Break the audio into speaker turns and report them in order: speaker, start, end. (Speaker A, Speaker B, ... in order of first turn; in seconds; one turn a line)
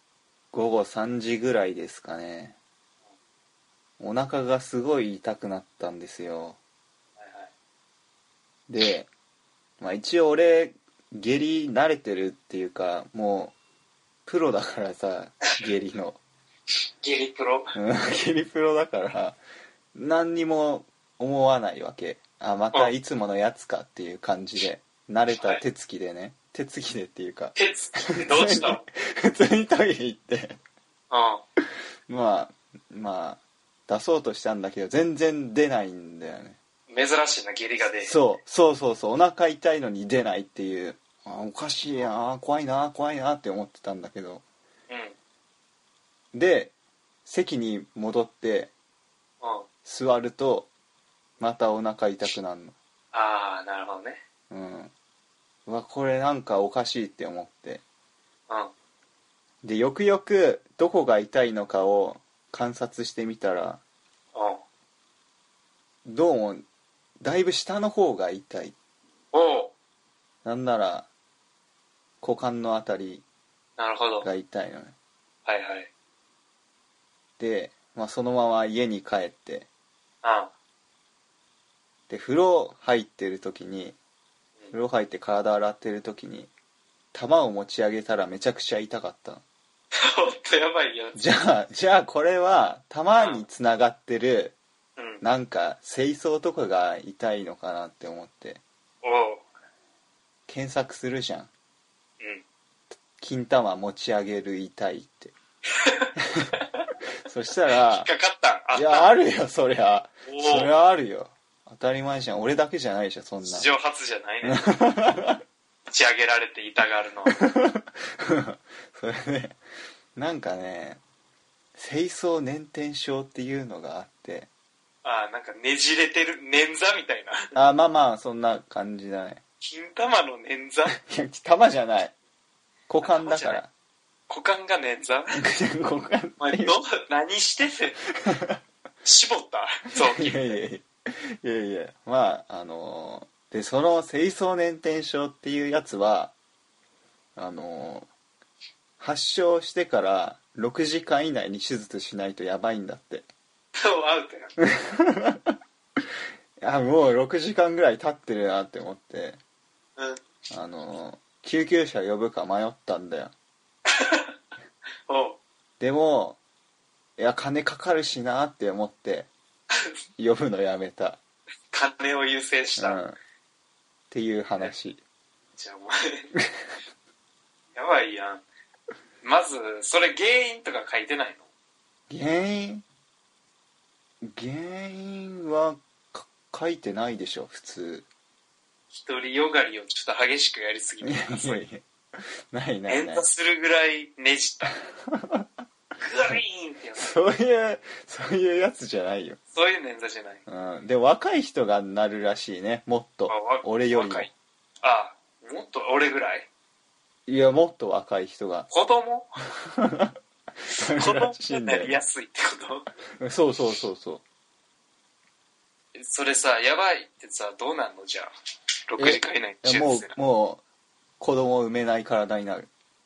Speaker A: 0.5-2.6
Speaker A: 4.0-6.6
Speaker B: 7.2-7.5
Speaker A: 8.7-9.1
Speaker A: 9.8-13.5
Speaker A: 14.2-16.2
Speaker B: 17.0-17.7
Speaker A: 17.7-19.4
Speaker A: 19.9-27.6
Speaker B: 25.3-25.6
Speaker B: 27.6-28.8
Speaker A: 28.2-30.6
Speaker B: 31.1-31.4
Speaker A: 32.1-36.6
Speaker B: 36.9-38.1
Speaker A: 38.0-44.4
Speaker B: 44.9-45.1
Speaker A: 46.3-46.7
Speaker A: 47.2-48.7
Speaker B: 49.4-49.7
Speaker A: 49.8-50.7
Speaker A: 51.4-52.7
Speaker B: 53.1-54.2
Speaker A: 54.5-54.9
Speaker A: 55.6-57.8
Speaker A: 59.6-63.8
Speaker B: 64.3-64.6
Speaker A: 66.0-66.6
Speaker A: 67.2-68.7
Speaker B: 69.3-69.7
Speaker A: 70.4-71.1
Speaker A: 72.2-73.2
Speaker B: 73.8-74.3
Speaker A: 74.2-74.9
Speaker B: 75.5-75.9
Speaker A: 77.4-79.7
Speaker B: 80.2-80.5
Speaker A: 82.1-84.0
Speaker A: 84.7-86.5
Speaker A: 87.1-89.4
Speaker B: 90.0-91.2
Speaker A: 91.1-94.5
Speaker B: 93.2-93.5
Speaker B: 95.0-95.2
Speaker A: 95.2-98.6
Speaker B: 99.0-99.4
Speaker A: 100.5-101.5
Speaker A: 103.2-105.3
Speaker B: 105.7-106.6
Speaker A: 107.2-108.1
Speaker B: 107.9-109.1
Speaker A: 108.7-113.7
Speaker B: 110.2-110.7
Speaker B: 113.4-114.6
Speaker A: 114.4-115.4
Speaker B: 115.9-117.3
Speaker A: 117.4-119.6
Speaker A: 120.1-121.0
Speaker A: 121.7-124.5
Speaker B: 125.0-127.5
Speaker A: 127.5-129.4
Speaker B: 129.6-130.9
Speaker A: 130.9-132.1
Speaker A: 132.9-133.7
Speaker B: 133.0-133.6
Speaker B: 134.3-135.4
Speaker A: 135.4-136.8
Speaker B: 136.4-137.9
Speaker A: 138.3-138.6
Speaker B: 139.0-140.6
Speaker A: 140.1-140.9
Speaker A: 141.4-146.3
Speaker A: 147.3-148.1
Speaker A: 149.0-153.2
Speaker B: 153.8-154.6
Speaker A: 154.6-155.4
Speaker A: 156.6-159.4
Speaker B: 160.0-160.2
Speaker A: 160.5-163.3
Speaker B: 163.9-164.3
Speaker B: 165.1-165.4
Speaker A: 165.8-166.4
Speaker A: 167.2-169.3
Speaker A: 170.2-171.2
Speaker B: 171.7-173.0
Speaker A: 172.8-173.1
Speaker A: 174.1-175.0
Speaker B: 175.6-176.3
Speaker B: 177.7-178.4
Speaker B: 179.2-181.5
Speaker A: 182.1-182.8
Speaker A: 184.2-188.1
Speaker B: 188.9-191.6
Speaker A: 191.0-191.8
Speaker A: 192.5-193.3
Speaker B: 192.9-194.7
Speaker A: 195.1-195.5
Speaker B: 196.0-197.2
Speaker A: 197.0-199.4
Speaker B: 199.5-200.4
Speaker A: 200.5-204.3
Speaker B: 203.3-204.3
Speaker B: 204.8-206.5
Speaker A: 207.3-208.7
Speaker B: 208.7-209.3
Speaker A: 209.8-210.1
Speaker A: 210.7-212.0
Speaker B: 210.9-212.9
Speaker A: 213.2-214.2
Speaker B: 215.9-218.3
Speaker B: 218.9-220.1
Speaker A: 219.0-220.6
Speaker A: 221.2-222.7